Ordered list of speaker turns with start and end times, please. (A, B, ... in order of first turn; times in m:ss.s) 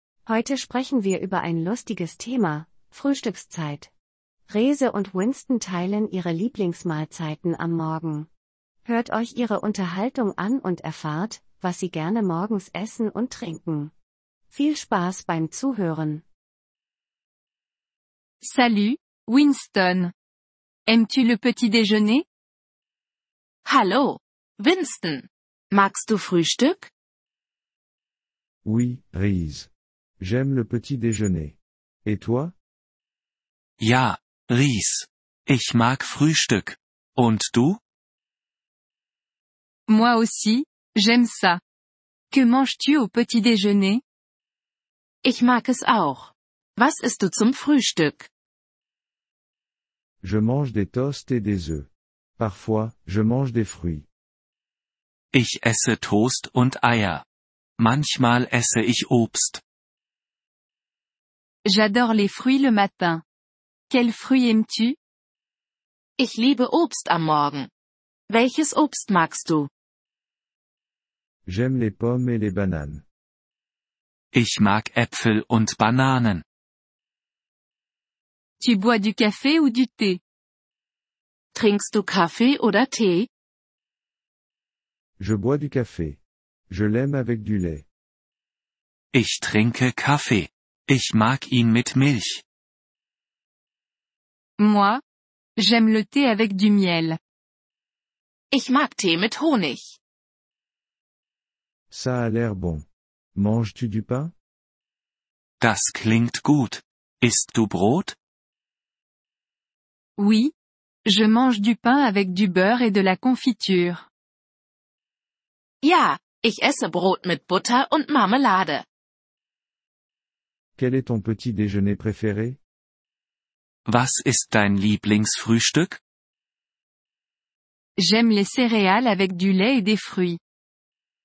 0:00.2-0:03.9 A
0:04.5-0:08.3 A
0:08.8-0:13.9 A
0:14.5-0:16.2 A
0:18.4-0:20.1 B
0:20.9-0:22.2 B
0:23.6-0:26.9 C
0:28.6-0:32.5 D
0:33.8-0:37.8 E
0:39.9-0:41.6 B
0:42.3-0:44.0 B
0:45.2-0:48.3 C
0:50.2-0:54.1 D
0:55.3-0:57.2 E
0:57.8-0:59.6 E
1:01.6-1:03.2 B
1:03.9-1:05.0 B
1:06.2-1:07.7 C
1:08.3-1:09.7 C
1:11.4-1:13.0 D
1:14.3-1:16.4 E
1:18.6-1:20.2 B
1:21.5-1:23.3 C
1:25.2-1:27.9 D
1:29.1-1:32.4 E
1:34.6-1:35.0 B
1:35.6-1:37.2 B
1:38.5-1:40.0 C
1:41.9-1:44.3 D
1:45.6-1:48.2 E
1:50.2-1:50.5 B
1:51.0-1:54.1 B
1:55.8-1:58.8 C
2:00.8-2:02.6 D
2:03.8-2:06.0 E
2:08.0-2:10.4 B